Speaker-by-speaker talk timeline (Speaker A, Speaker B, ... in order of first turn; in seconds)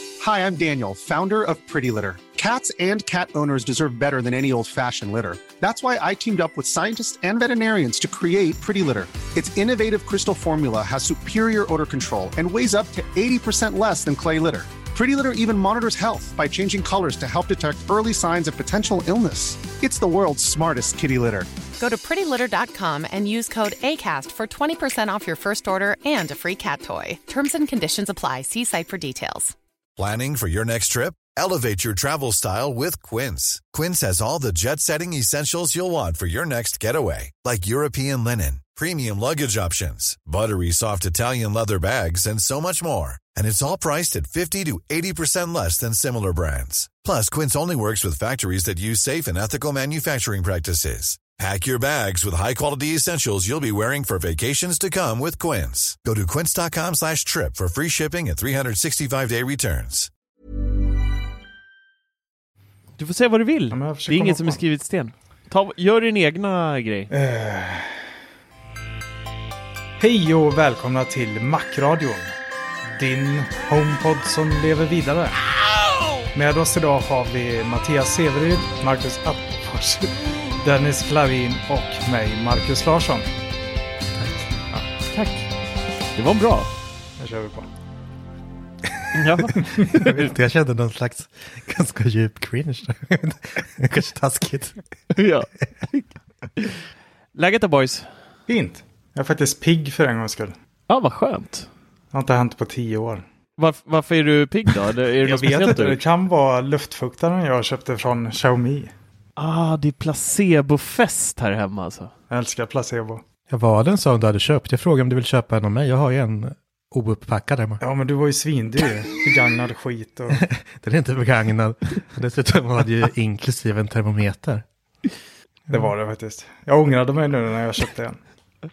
Speaker A: 0.2-21.5
Speaker B: 21.8-29.6
Speaker C: 30.0-60.1
Speaker D: 63.0-67.1, 85.1-85.5, 86.2-86.7, 89.1-90.3, 95.1-96.8, 97.3-98.1, 100.9-101.7, 103.6-106.0, 109.4-112.1
Speaker E: 63.7-64.6, 67.1-68.1, 70.0-72.3, 72.9-75.4, 76.3-83.3, 87.2-87.7, 89.8-90.1, 98.5-100.5, 102.1-103.2, 105.2-108.9, 112.3-113.2, 117.8-120.4, 125.7-128.2
Speaker F: 84.1-84.5, 89.4-94.8, 113.5-117.8, 120.3-124.6